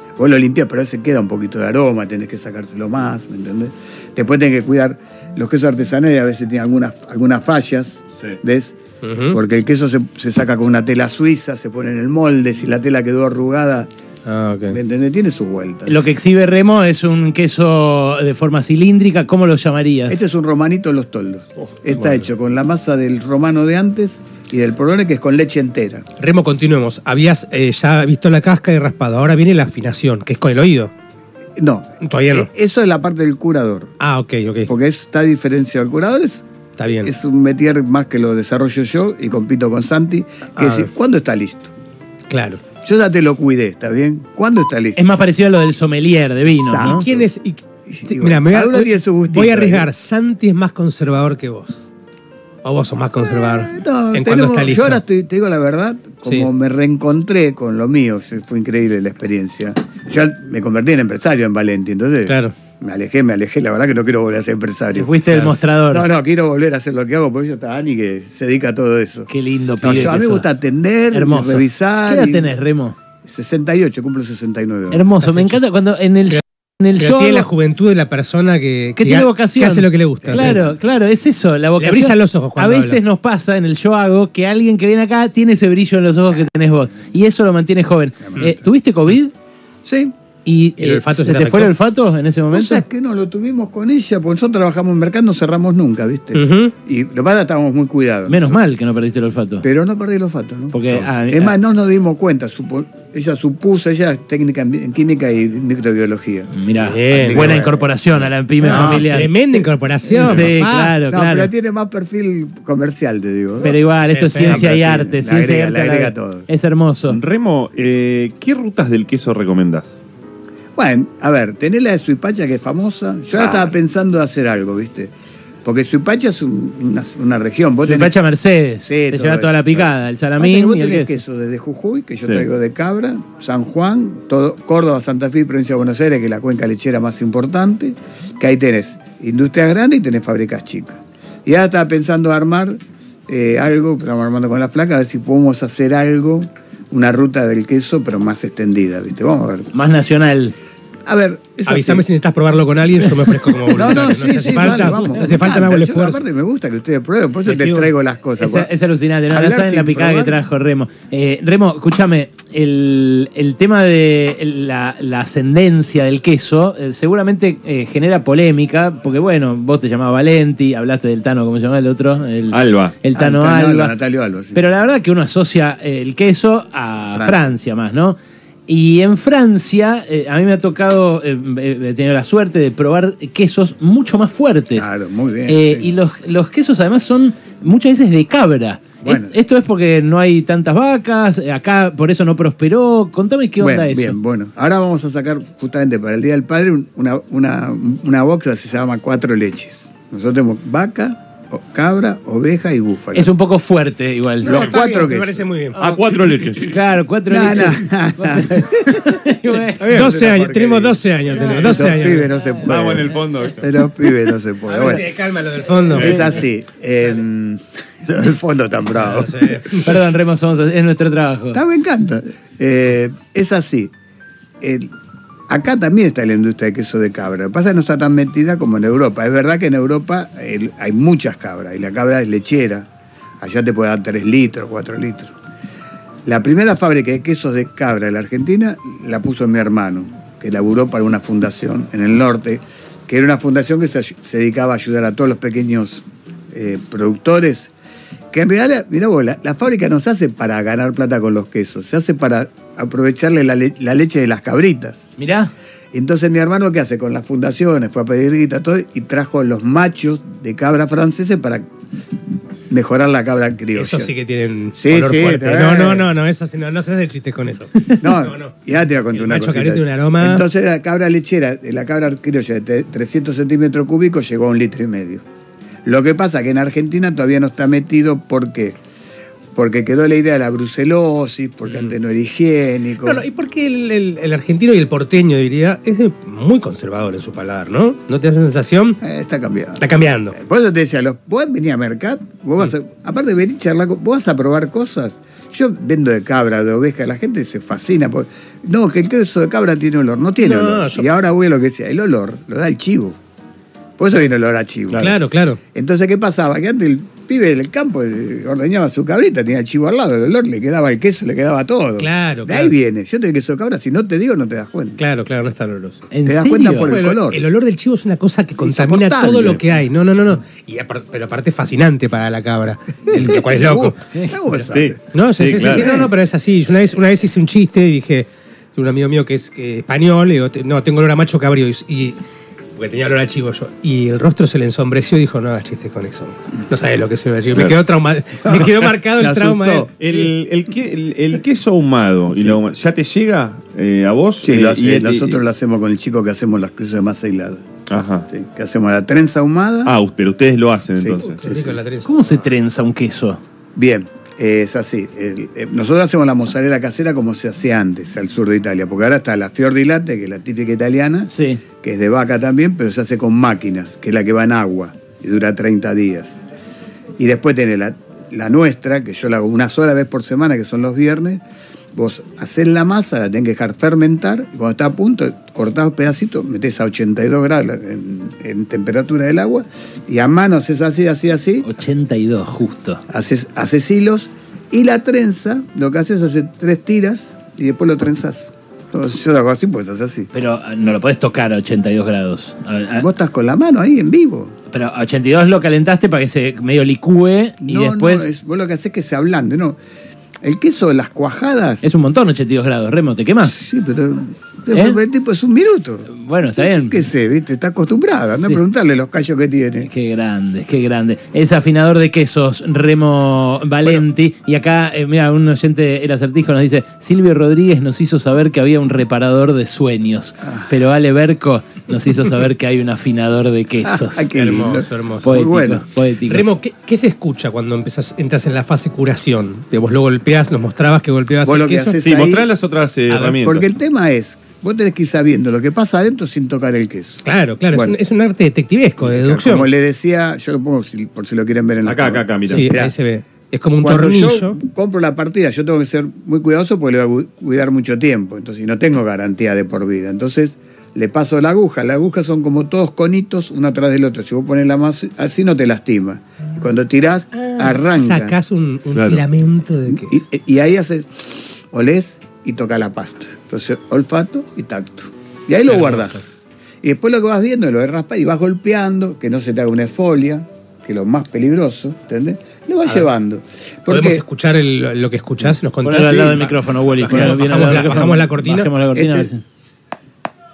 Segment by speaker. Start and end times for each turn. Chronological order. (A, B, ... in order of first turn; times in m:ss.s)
0:00.2-0:08.8 A
0:09.0-0:09.4 B
0:09.3-0:13.9 A
0:14.3-0:14.8 B
0:14.7-0:16.0 A
0:15.9-0:20.2 C
0:20.1-0:26.1 A
0:22.0-0:22.2 B
0:26.2-0:30.9 B
0:31.6-0:34.0 A
0:32.0-0:32.5 B
0:34.0-0:34.7 B
0:34.7-0:41.7 A
0:36.8-0:37.1 B
0:40.6-0:40.9 B
0:42.3-0:42.6 B
0:42.8-0:45.0 A
0:45.0-0:47.0 C
0:46.5-0:47.3 A
0:46.8-0:51.8 B
0:47.9-0:49.9 A
0:52.6-0:55.0 B
0:53.2-1:12.5 A
1:02.3-1:02.6 B
1:04.9-1:06.1 C
1:09.3-1:10.6 C
1:11.1-1:13.0 C
1:13.2-1:15.1 A
1:14.9-1:17.5 C
1:15.2-1:15.6 B
1:16.9-1:20.7 B
1:19.0-1:29.3 C
1:20.2-1:20.6 A
1:21.8-1:23.0 B
1:28.3-1:28.6 A
1:29.8-1:30.1 A
1:30.4-1:32.8 C
1:30.8-1:31.8 B
1:32.5-1:38.6 A
1:36.3-1:36.7 B
1:38.3-1:39.6 C
1:39.6-1:47.9 A
1:40.7-1:41.6 C
1:46.5-1:49.3 C
1:46.9-1:47.6 B
1:48.6-1:51.0 B
1:48.6-1:50.3 A
1:50.1-1:51.5 C
1:51.1-1:53.8 A
1:53.6-1:57.2 C
1:54.1-1:54.7 B
1:54.4-1:56.5 A
1:57.1-2:00.0 D
2:00.8-2:05.1 A
2:05.6-2:08.1 A
2:07.8-2:11.2 C
2:08.8-2:29.7 A
2:29.7-2:30.6 C
2:31.1-2:32.1 A
2:31.6-2:36.2 B
2:33.7-2:38.7 A
2:34.6-2:35.1 C
2:37.5-2:37.8 B
2:38.4-2:54.0 C
2:39.3-2:40.4 A
2:52.5-2:53.0 D
2:53.1-2:54.6 A
2:54.5-2:58.2 C
2:57.1-2:57.6 A
2:58.7-3:04.9 C
3:04.8-3:05.9 A
3:05.5-3:14.2 C
3:09.0-3:09.4 A
3:13.6-3:23.3 A
3:23.1-3:24.6 C
3:24.4-3:25.4 A
3:24.4-3:25.8 B
3:25.8-3:26.7 D
3:26.5-3:29.9 C
3:27.3-3:29.2 A
3:29.8-3:35.1 A
3:29.9-3:32.3 B
3:32.6-3:33.8 D
3:34.6-3:36.4 B
3:35.9-3:39.7 A
3:35.9-3:36.2 D
3:39.0-3:39.9 B
3:39.7-3:41.6 C
3:41.5-3:43.9 A
3:44.6-3:44.9 A
3:45.5-3:52.9 A
3:53.4-3:55.3 A
3:56.3-4:07.7 A
4:08.3-4:15.1 A
4:15.2-4:15.5 C
4:15.9-4:21.6 A
4:22.7-4:24.1 A
4:23.7-4:28.5 B
4:24.8-4:26.1 A
4:28.0-4:35.2 A
4:29.1-4:30.4 B
4:35.8-4:38.8 A
4:39.6-4:43.3 A
4:43.0-4:49.0 B
4:49.0-5:03.2 A
4:49.8-4:50.4 B
5:00.4-5:01.1 B
5:04.0-5:05.2 A
5:05.0-5:05.6 B
5:05.7-5:15.0 A
5:12.0-5:12.7 B
5:15.0-5:16.1 B
5:16.1-5:17.0 C
5:16.3-5:17.4 A
5:16.9-5:24.0 B
5:18.6-5:19.6 A
5:23.1-5:25.0 A
5:24.7-5:26.1 D
5:25.1-5:32.2 B
5:25.6-5:26.0 A
5:32.8-5:40.1 B
5:38.5-5:39.9 A
5:40.0-5:45.4 D
5:44.4-5:47.6 A
5:47.9-5:48.3 D
5:48.3-5:49.9 A
5:49.8-5:51.4 D
5:51.0-5:51.8 A
5:51.2-5:52.4 B
5:52.0-5:53.4 C
5:53.8-6:06.4 A
6:01.3-6:01.6 C
6:07.2-6:11.4 A
6:11.9-6:21.7 A
6:21.6-6:23.0 C
6:23.1-6:30.3 A
6:30.3-6:33.1 C
6:33.0-6:34.6 A
6:34.7-6:38.3 C
6:37.6-6:39.8 A
6:40.4-6:41.8 A
6:41.8-6:43.6 C
6:43.4-6:49.9 A
6:44.7-6:45.0 C
6:46.1-6:47.0 C
6:49.8-7:04.3 C
7:00.4-7:00.7 A
7:03.8-7:05.8 A
7:04.3-7:05.4 B
7:05.2-7:06.5 C
7:06.3-7:12.0 B
7:11.4-7:12.5 A
7:12.0-7:13.7 D
7:13.3-7:18.0 A
7:17.2-7:19.7 B
7:19.0-7:22.9 A
7:21.8-7:22.8 D
7:22.5-7:24.6 B
7:23.8-7:38.4 A
7:37.4-7:40.1 B
7:38.9-7:39.2 D
7:39.9-7:46.2 A
7:45.7-7:46.2 B
7:46.8-7:54.2 A
7:53.9-7:58.7 B
7:55.8-7:59.4 C
7:58.9-7:59.3 A